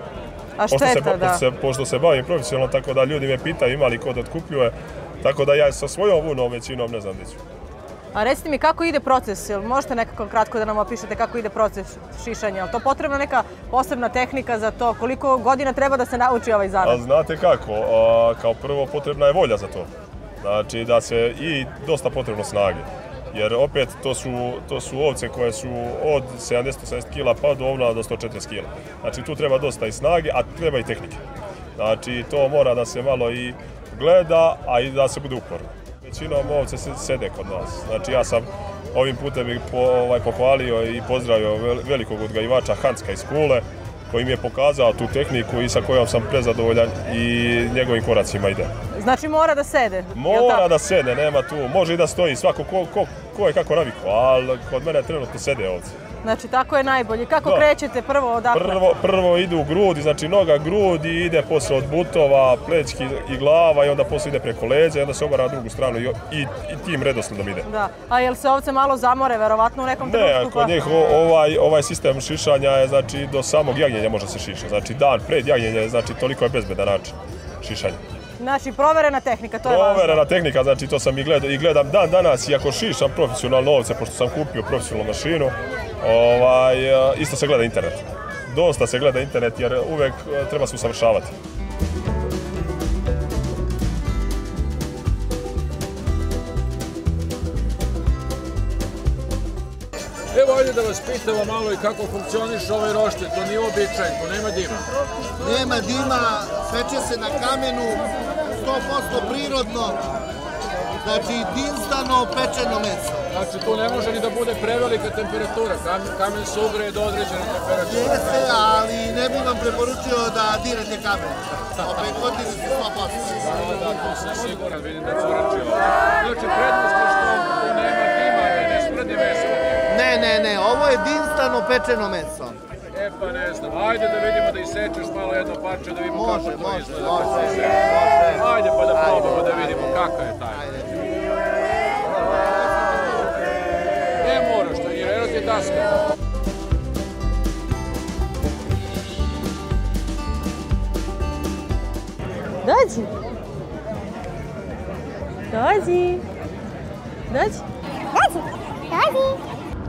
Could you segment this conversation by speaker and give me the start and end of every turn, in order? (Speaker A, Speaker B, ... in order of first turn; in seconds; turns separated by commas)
Speaker A: 0.6-1.4, Speaker B: 0.7-7.4, Speaker A: 8.1-17.0, Speaker B: 16.8-19.9, Speaker B: 20.4-31.2, Speaker B: 31.8-48.7, Speaker A: 48.9-50.6, Speaker B: 50.1-55.9, Speaker A: 56.2-58.8, Speaker B: 58.5-67.7, Speaker A: 67.7-70.7, Speaker B: 70.0-78.0, Speaker A: 78.4-80.2, Speaker B: 79.6-91.3, Speaker C: 100.3-104.8, Speaker D: 105.4-110.0, Speaker D: 111.0-113.2, Speaker C: 113.3-118.6, Speaker D: 117.9-123.4, Speaker C: 123.4-129.8, Speaker D: 129.9-132.6, Speaker C: 132.9-137.8, Speaker D: 136.1-139.8, Speaker C: 138.3-140.9, Speaker D: 140.5-141.0, Speaker C: 144.2-145.9, Speaker A: 152.6-153.1, Speaker A: 155.5-156.2, Speaker A: 157.3-157.6, Speaker A: 158.1-159.4